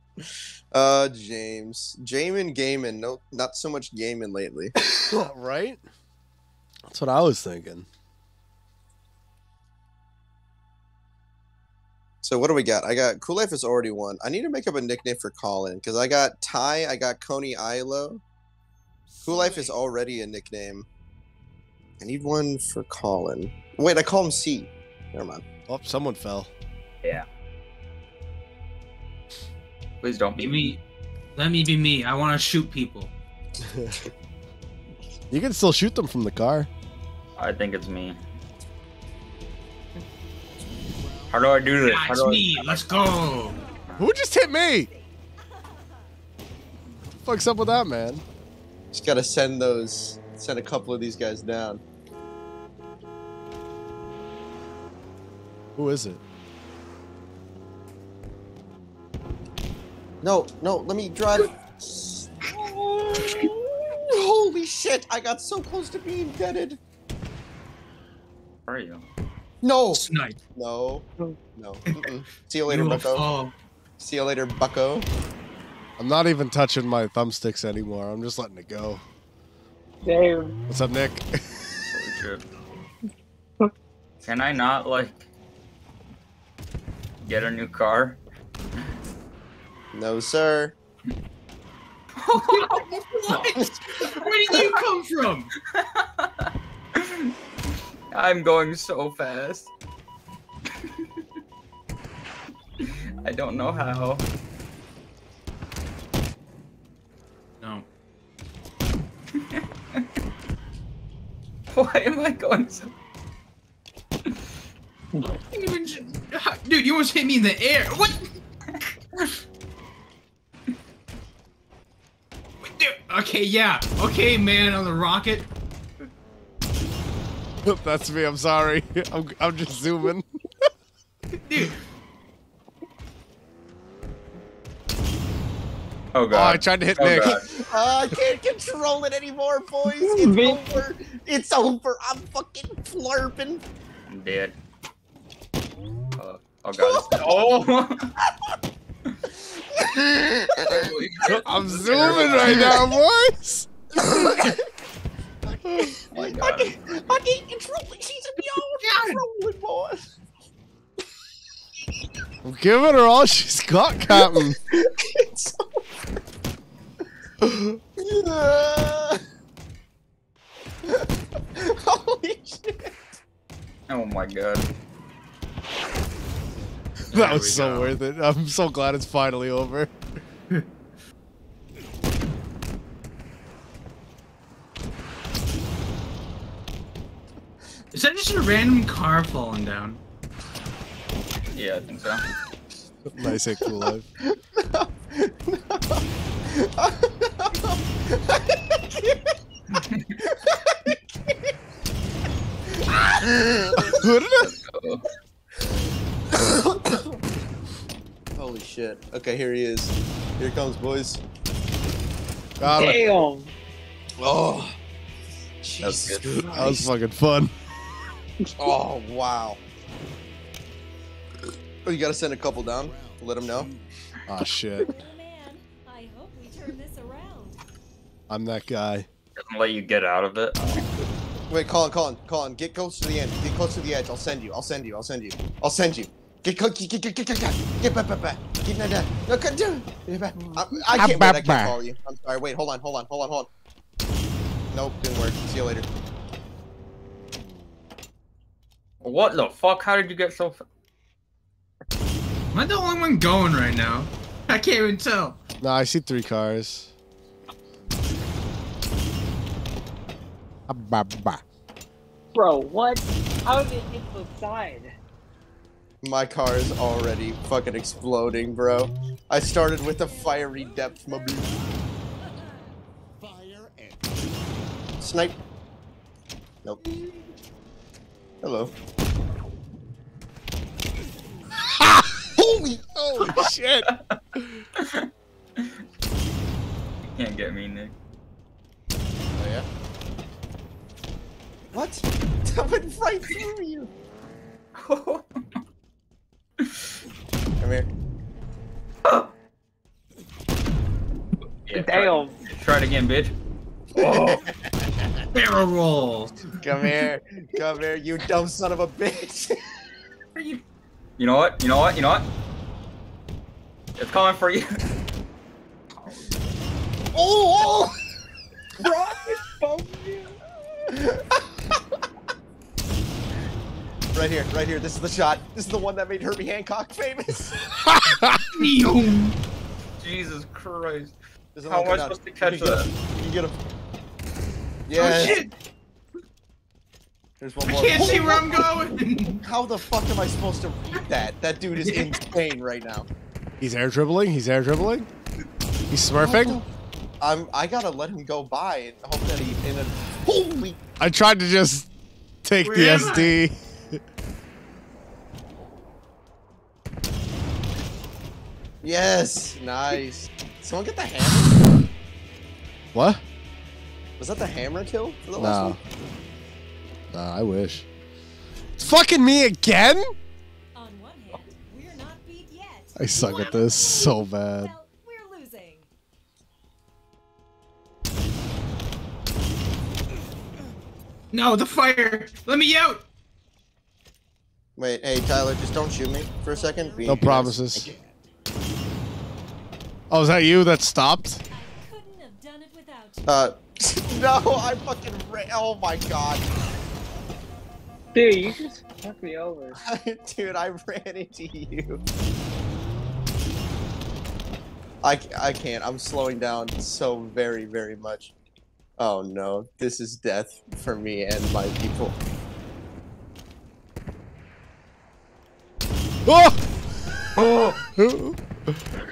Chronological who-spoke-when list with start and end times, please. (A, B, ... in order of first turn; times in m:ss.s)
0:00.2-0:04.7 A
0:05.0-0:05.8 B
0:06.9-0:07.9 B
0:12.2-0:18.2 A
0:19.1-0:19.8 C
0:19.2-0:20.9 A
0:22.0-0:25.4 A
0:25.7-0:26.5 B
0:30.0-0:30.7 D
0:30.4-0:30.8 E
0:31.4-0:33.1 E
0:33.7-0:33.9 B
0:35.3-0:36.7 B
0:37.4-0:38.2 D
0:40.7-0:41.8 C
0:41.3-0:43.2 D
0:41.8-0:43.6 E
0:43.5-0:46.1 F
0:44.0-0:44.9 B
0:47.2-0:48.2 B
0:48.9-0:51.8 A
0:55.8-0:56.2 B
1:00.2-1:06.8 A
1:08.7-1:09.1 D
1:09.6-1:13.3 A
1:09.9-1:10.4 E
1:12.7-1:13.5 E
1:14.0-1:15.1 A
1:16.0-1:19.0 B
1:20.0-1:20.5 G
1:20.7-1:21.4 B
1:21.9-1:22.4 D
1:24.2-1:25.3 D
1:27.2-1:28.2 D
1:29.9-1:30.8 A
1:32.3-1:32.9 D
1:32.3-1:35.5 E
1:35.7-1:37.3 D
1:38.1-1:39.7 D
1:42.8-1:44.2 D
1:47.6-1:47.9 E
1:51.7-1:52.9 D
1:55.5-1:58.2 E
2:02.6-2:05.5 E
2:07.6-2:10.2 B
2:11.4-2:11.8 E
2:16.1-2:17.5 D
2:16.3-2:17.4 B
2:17.2-2:23.6 A
2:20.0-2:20.6 G
2:24.1-2:24.6 D
2:26.2-2:28.1 D
2:26.8-2:27.5 A
2:29.2-2:30.9 A
2:30.5-2:32.9 D
2:31.2-2:33.7 B
2:31.9-2:32.7 A
2:34.0-2:34.6 A
2:35.5-2:40.0 A
2:36.1-2:36.8 D
2:42.4-2:44.6 B
2:44.2-2:45.6 A
2:47.4-2:47.7 B
2:48.0-2:49.2 A
2:50.8-2:53.0 A
2:53.9-2:54.7 D
2:57.1-2:58.0 E
2:57.1-2:59.9 B
3:07.9-3:10.0 E
3:11.5-3:12.2 D
3:13.1-3:14.1 B
3:14.2-3:19.3 A
3:20.2-3:21.0 A
3:22.7-3:24.0 A
3:23.8-3:24.5 B
3:24.4-3:25.0 D
3:26.3-3:27.2 A
3:28.4-3:31.2 A
3:32.6-3:33.0 B
3:32.7-3:33.5 G
3:34.2-3:34.7 A
3:35.6-3:36.9 A
3:35.8-3:36.3 D
3:36.4-3:37.5 B
3:38.6-3:39.6 A
3:41.8-3:43.7 A
3:42.5-3:43.9 C
3:44.3-3:44.9 B
3:44.8-3:47.6 F
3:48.3-3:49.1 B
3:49.4-3:51.0 D
3:51.5-4:03.5 A
4:00.8-4:01.8 B
4:04.7-4:05.9 A
4:09.0-4:10.6 D
4:12.5-4:15.4 E
4:15.6-4:16.9 B
4:20.7-4:21.4 B
4:22.3-4:24.9 G
4:26.0-4:31.5 A
4:29.9-4:32.8 F
4:33.2-4:35.0 C
4:35.0-4:35.4 A
4:38.4-4:38.7 A
4:41.6-4:44.6 B
4:42.4-4:42.8 A
4:44.8-4:45.1 D
4:47.1-4:47.9 D
4:49.4-4:49.7 A
4:51.7-4:53.9 A
4:54.8-4:55.2 D
4:57.6-4:57.9 A
4:59.0-4:59.3 D
5:01.6-5:03.3 D
5:01.7-5:02.4 G
5:03.9-5:04.5 D
5:05.3-5:06.5 E
5:06.6-5:09.6 A
5:10.4-5:10.6 D
5:11.2-5:12.3 D
5:14.0-5:14.8 D
5:16.0-5:16.4 D
5:17.1-5:18.0 A
5:18.8-5:20.4 G
5:20.9-5:21.3 A
5:24.1-5:27.6 A
5:27.8-5:28.4 B
5:28.5-5:29.3 E
5:30.0-5:31.2 D
5:31.5-5:33.6 A
5:31.7-5:32.9 D
5:34.9-5:35.4 A
5:34.9-5:35.5 E
5:37.4-5:43.1 A
5:37.6-5:39.4 E
5:41.8-5:42.2 E
5:43.6-5:45.1 B
5:45.9-5:46.6 B
5:46.2-5:46.6 A
5:47.2-5:50.8 A
5:51.0-5:51.9 B
5:52.4-5:54.0 B
5:52.6-5:53.4 E
5:58.8-6:01.6 A
6:02.9-6:03.2 B
6:04.2-6:05.8 A
6:05.4-6:05.8 B
6:07.1-6:07.9 B
6:08.8-6:10.1 B
6:10.7-6:15.9 F
6:13.0-6:14.7 B
6:21.3-6:23.0 E
6:24.8-6:27.9 A
6:26.4-6:28.3 C
6:27.0-6:27.9 B
6:30.1-6:31.4 B
6:31.5-6:33.5 F
6:33.3-6:36.5 A
6:38.1-6:39.8 G
6:39.8-6:42.0 A
6:45.0-6:48.3 A
6:49.0-6:52.2 A
6:56.3-6:56.6 B
6:57.3-6:57.8 D
6:58.0-6:58.4 B